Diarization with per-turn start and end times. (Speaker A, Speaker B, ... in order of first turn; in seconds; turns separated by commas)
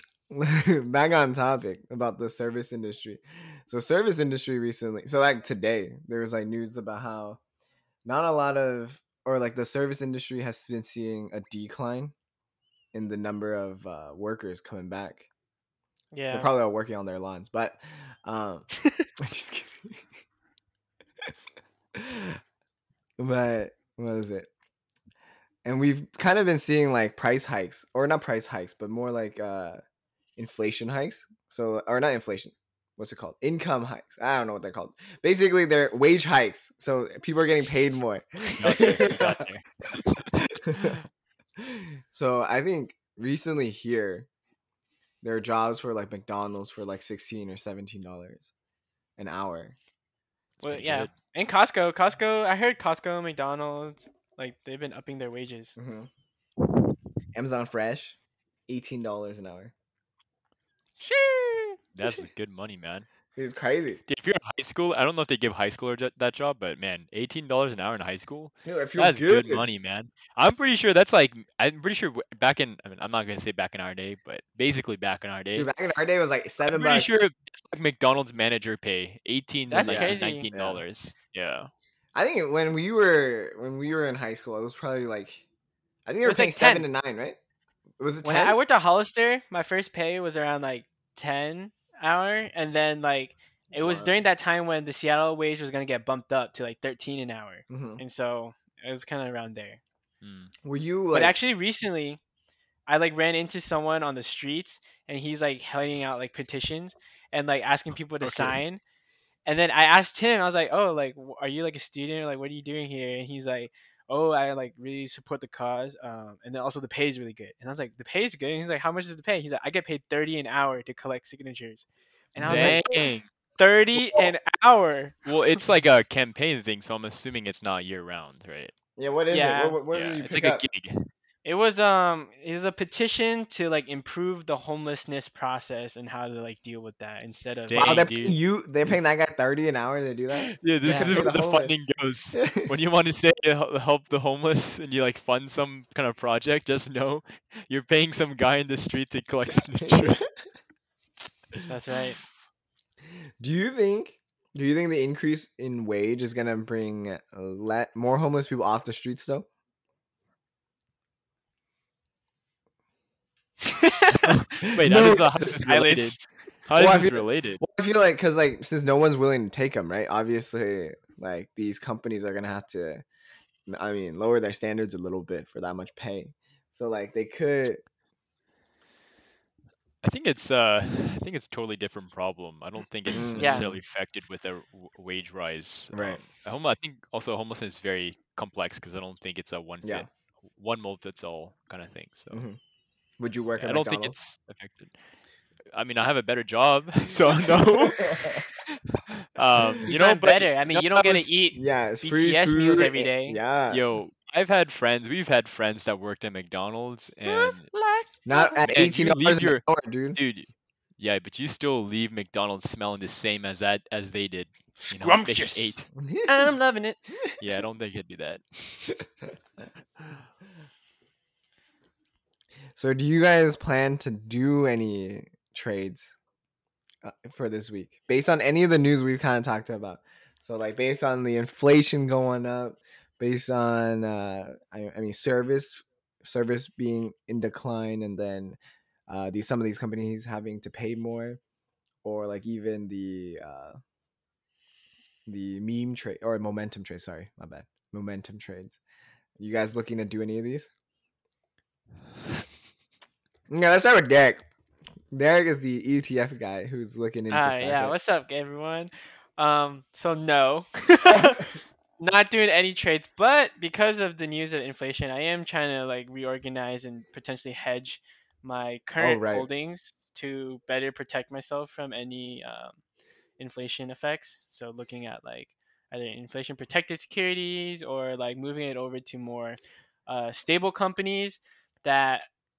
Speaker A: 0.3-7.4, Speaker A: 8.0-12.1, Speaker A: 12.9-15.3, Speaker B: 16.1-16.5, Speaker A: 16.3-20.0, Speaker A: 21.9-22.4, Speaker A: 23.2-24.5, Speaker A: 25.6-29.8, Speaker A: 30.4-39.4, Speaker C: 38.6-41.0, Speaker A: 40.4-41.0, Speaker A: 41.6-44.3, Speaker A: 45.2-48.5, Speaker A: 49.2-49.8, Speaker C: 50.6-51.1, Speaker B: 50.6-55.7, Speaker A: 55.8-56.1, Speaker A: 57.3-58.2, Speaker A: 58.7-59.7, Speaker B: 61.0-61.8, Speaker C: 61.9-63.1, Speaker A: 63.4-64.0, Speaker C: 64.1-75.7, Speaker A: 68.6-69.7, Speaker A: 75.5-77.2, Speaker C: 76.6-81.7, Speaker B: 79.7-80.5, Speaker A: 79.8-80.8, Speaker A: 82.1-85.4, Speaker A: 86.0-87.4, Speaker B: 86.2-86.9, Speaker A: 88.0-88.6, Speaker B: 88.2-99.8, Speaker A: 93.7-94.2, Speaker A: 97.7-98.0, Speaker C: 100.2-100.5, Speaker A: 100.6-101.3, Speaker B: 101.1-102.2, Speaker B: 102.9-108.8, Speaker C: 108.2-108.6, Speaker B: 109.5-125.3, Speaker A: 122.4-123.0, Speaker C: 122.4-123.3, Speaker C: 123.9-124.3, Speaker C: 125.2-128.7, Speaker A: 129.0-130.6, Speaker B: 129.3-129.8, Speaker C: 129.9-131.1, Speaker B: 131.4-138.0, Speaker C: 137.7-138.4, Speaker A: 137.7-141.7, Speaker C: 140.3-150.3, Speaker B: 140.8-141.2, Speaker A: 142.3-142.7, Speaker A: 149.8-150.2, Speaker B: 151.7-152.2, Speaker A: 153.4-159.5, Speaker B: 163.6-166.2, Speaker C: 164.2-167.6, Speaker A: 164.7-165.6, Speaker A: 166.7-173.0, Speaker A: 173.7-177.8, Speaker C: 180.0-192.4, Speaker A: 183.1-183.8, Speaker B: 183.3-183.7, Speaker A: 185.9-186.2, Speaker A: 192.3-192.6, Speaker A: 193.2-194.2, Speaker C: 193.6-194.9, Speaker C: 195.7-201.3, Speaker A: 197.4-198.4, Speaker B: 199.8-203.4, Speaker A: 201.5-203.8, Speaker C: 203.7-207.7, Speaker B: 207.2-208.6, Speaker A: 208.2-210.2, Speaker C: 208.7-209.6, Speaker C: 210.1-215.9, Speaker B: 214.9-217.0, Speaker A: 216.0-216.3, Speaker C: 217.4-219.0, Speaker A: 222.7-226.1, Speaker A: 227.0-241.4, Speaker A: 242.0-243.8, Speaker A: 245.3-248.8, Speaker A: 249.4-250.7, Speaker A: 253.5-254.5, Speaker A: 255.1-257.9, Speaker B: 257.3-261.4, Speaker A: 261.1-261.5, Speaker B: 262.0-272.8, Speaker A: 269.0-269.5, Speaker B: 273.4-282.3